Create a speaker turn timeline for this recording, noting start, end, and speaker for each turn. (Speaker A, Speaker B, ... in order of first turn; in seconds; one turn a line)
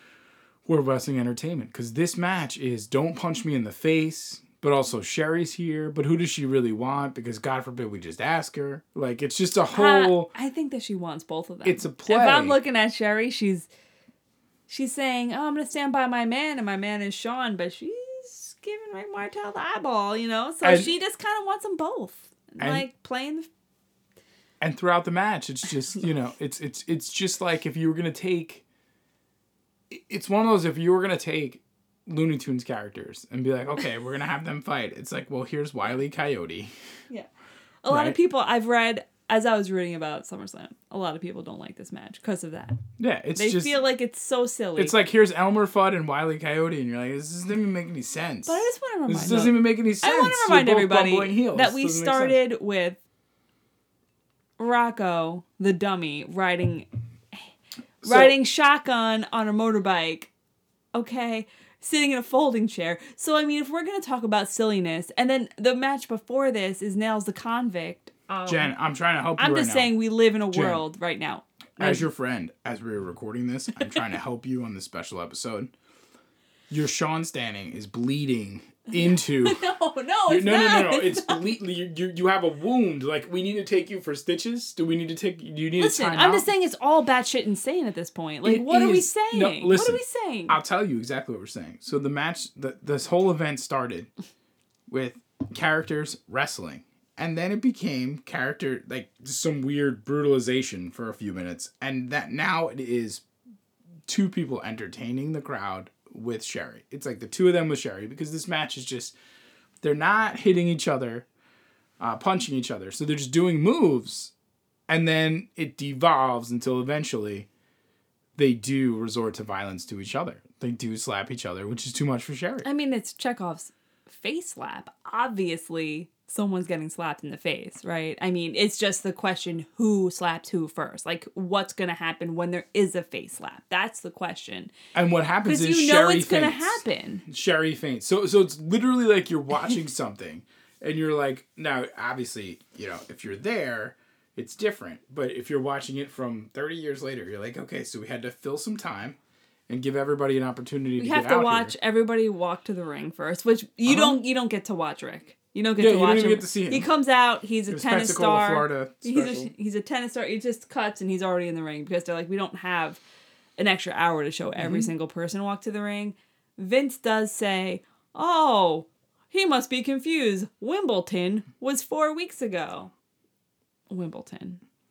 Speaker A: 0.7-10.3
Speaker B: 9.7-13.7
Speaker A: 11.6-12.6
Speaker B: 14.7-23.5
Speaker A: 20.6-20.9
Speaker A: 22.6-22.9
Speaker A: 24.6-28.6
Speaker A: 29.9-36.7
Speaker B: 37.8-42.8
Speaker A: 37.9-38.1
Speaker A: 43.0-43.8
Speaker B: 43.4-44.9
Speaker A: 44.8-52.4
Speaker B: 48.5-53.0
Speaker B: 54.6-57.5
Speaker A: 58.0-58.3
Speaker B: 58.0-60.3
Speaker B: 60.9-68.7
Speaker A: 68.5-69.9
Speaker B: 69.4-72.1
Speaker A: 70.5-70.8
Speaker A: 71.8-75.7
Speaker A: 76.7-79.6
Speaker B: 78.9-81.4
Speaker A: 80.3-86.5
Speaker B: 85.8-90.6
Speaker A: 88.4-94.1
Speaker A: 94.9-103.2
Speaker A: 104.1-109.1
Speaker A: 109.8-111.2
Speaker A: 112.0-114.3
Speaker A: 114.9-117.5
Speaker A: 118.3-122.7
Speaker B: 122.6-134.7
Speaker A: 134.9-149.2
Speaker B: 135.4-137.2
Speaker A: 149.7-151.7
Speaker B: 151.0-163.0
Speaker A: 153.8-154.2
Speaker A: 155.8-156.9
Speaker A: 157.7-159.5
Speaker B: 163.6-172.9
Speaker A: 164.6-164.9
Speaker B: 173.9-174.6